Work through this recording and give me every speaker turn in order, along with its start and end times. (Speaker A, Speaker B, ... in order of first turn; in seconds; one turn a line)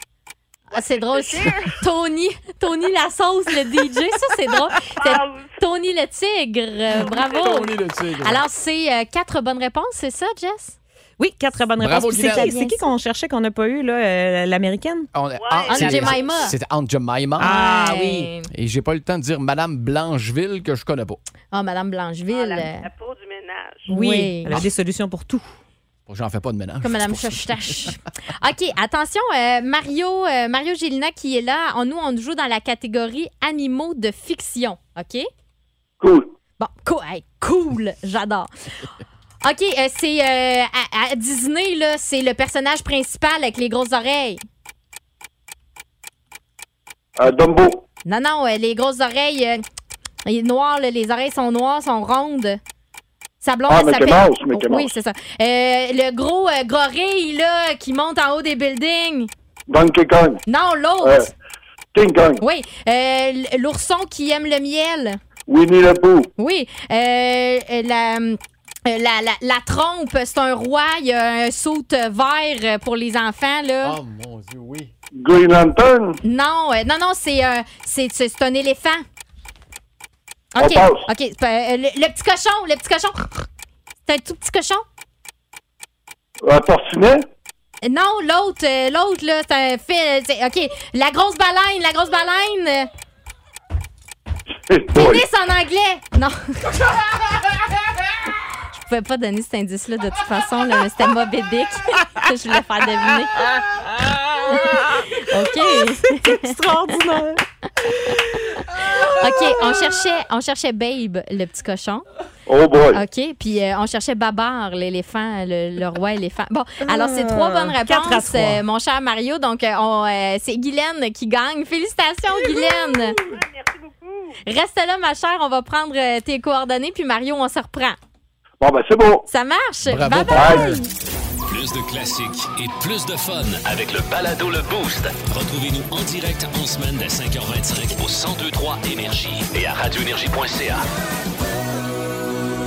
Speaker A: 0.7-10.8
Speaker B: 7.0-8.4
Speaker C: 11.2-15.1
Speaker B: 11.8-12.5
Speaker A: 12.2-12.9
Speaker B: 15.1-17.6
Speaker A: 15.7-16.6
Speaker C: 17.4-18.3
Speaker A: 17.4-18.5
Speaker B: 18.5-21.2
Speaker A: 21.5-22.9
Speaker C: 23.9-25.5
Speaker A: 23.9-24.6
Speaker B: 26.1-27.9
Speaker A: 26.8-35.3
Speaker D: 36.0-36.3
Speaker A: 36.6-38.5
Speaker A: 39.4-44.4
Speaker D: 47.2-47.8
Speaker A: 48.0-49.6
Speaker A: 50.2-52.6
Speaker A: 53.4-59.3
Speaker D: 53.7-54.9
Speaker D: 59.7-60.4
Speaker A: 60.5-61.3
Speaker D: 61.0-61.3
Speaker D: 61.9-62.4
Speaker A: 62.4-65.2
Speaker D: 65.5-66.3
Speaker A: 66.4-74.0
Speaker B: 73.8-74.9
Speaker D: 75.1-76.2
Speaker A: 76.2-79.0
Speaker A: 80.5-83.5
Speaker D: 80.6-81.1
Speaker A: 84.0-84.8
Speaker D: 86.4-87.3
Speaker A: 87.8-92.9
Speaker D: 94.7-95.2
Speaker A: 94.9-96.8
Speaker A: 98.7-103.5
Speaker C: 104.3-107.4
Speaker A: 104.5-106.5
Speaker A: 107.8-112.0
Speaker C: 108.0-108.3
Speaker D: 112.5-113.0
Speaker A: 112.9-123.2
Speaker C: 116.8-118.6
Speaker A: 124.5-128.0
Speaker D: 128.6-129.2
Speaker A: 129.3-130.9
Speaker B: 129.8-130.9
Speaker D: 130.3-130.6
Speaker E: 131.5-140.8